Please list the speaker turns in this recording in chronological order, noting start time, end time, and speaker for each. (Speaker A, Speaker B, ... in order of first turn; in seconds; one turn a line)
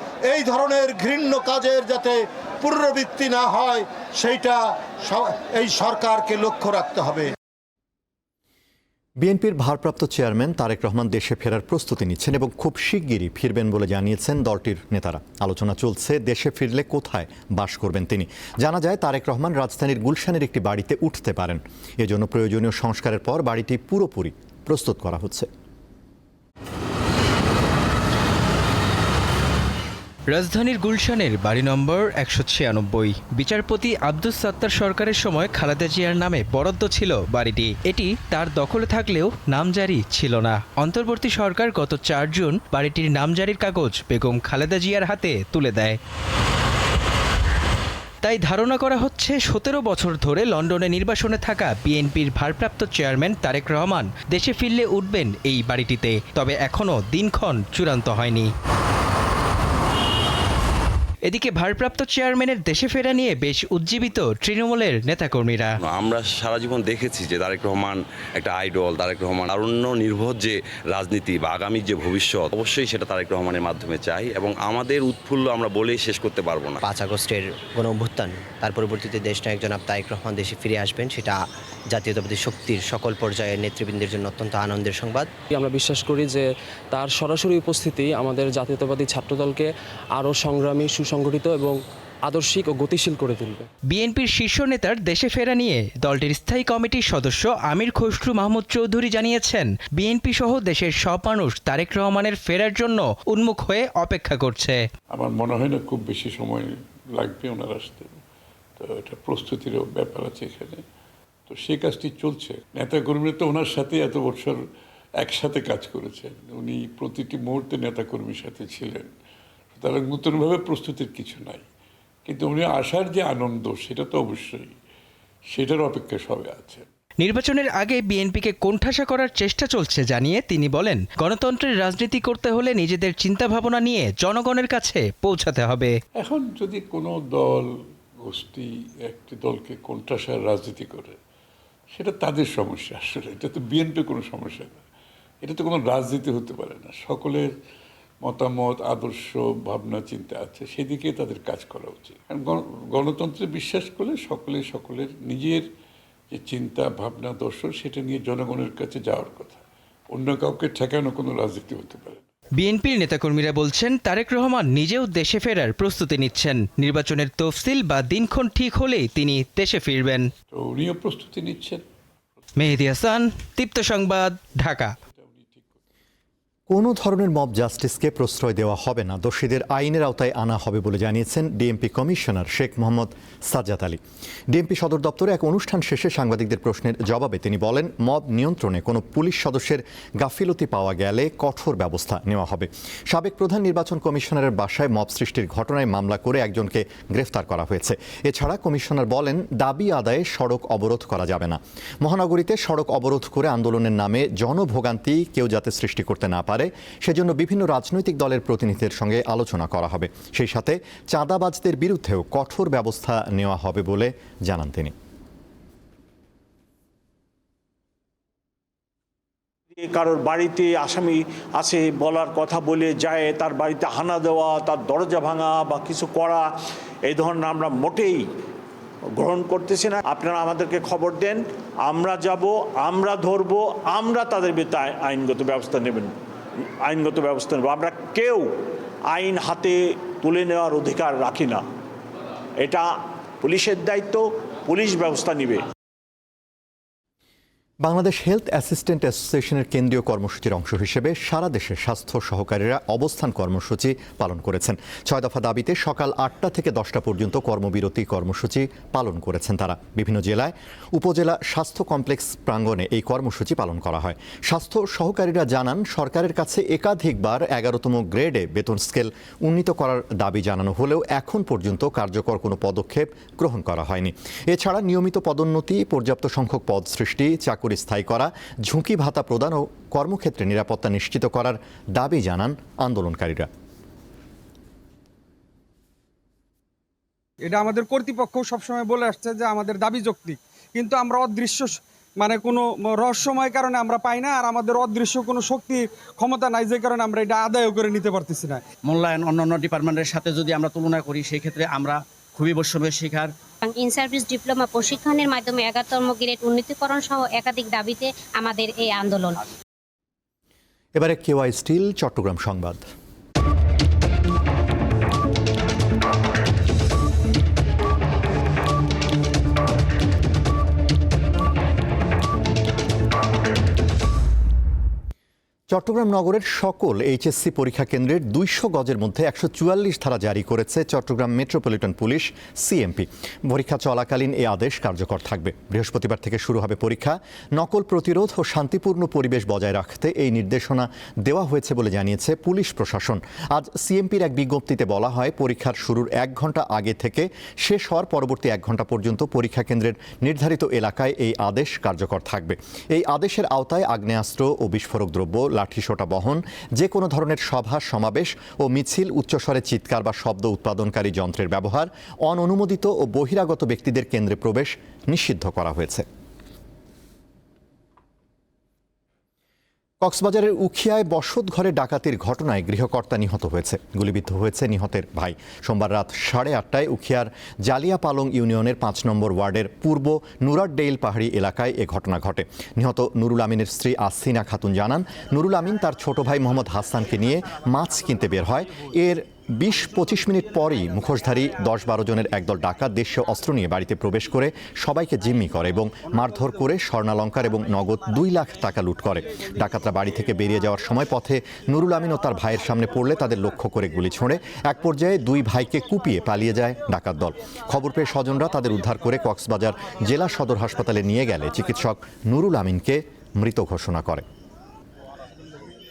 Speaker A: 0.3-2.1
Speaker A: 2.6-4.5
Speaker A: 5.1-7.2
Speaker B: 9.2-25.5
Speaker C: 30.3-46.0
Speaker C: 48.2-58.5
Speaker C: 61.3-65.8
Speaker D: 65.8-76.8
Speaker E: 76.8-81.4
Speaker E: 81.9-85.2
Speaker F: 85.5-93.7
Speaker C: 93.9-104.8
Speaker G: 105.1-108.2
Speaker G: 108.8-110.8
Speaker G: 111.5-114.6
Speaker G: 115.2-119.1
Speaker G: 119.7-121.7
Speaker G: 122.2-124.7
Speaker G: 125.5-126.9
Speaker C: 127.2-135.9
Speaker G: 136.2-137.7
Speaker G: 138.2-141.2
Speaker G: 141.9-144.8
Speaker G: 145.4-147.5
Speaker G: 148.2-155.7
Speaker G: 156.3-162.3
Speaker C: 162.6-170.3
Speaker G: 170.5-171.8
Speaker C: 172.6-174.9
Speaker G: 175.1-175.8
Speaker B: 176.7-214.9
Speaker H: 219.8-226.5
Speaker H: 227.1-228.3
Speaker H: 229.2-236.1
Speaker H: 236.9-238.5
Speaker H: 239.1-241.6
Speaker H: 242.6-242.9
Speaker H: 243.4-245.6
Speaker B: 247.8-283.5
Speaker I: 287.4-298.6
Speaker J: 298.9-303.3
Speaker K: 303.6-309.4
Speaker B: 311.0-312.9
Speaker B: 325.7-366.1
Speaker B: 370.0-414.2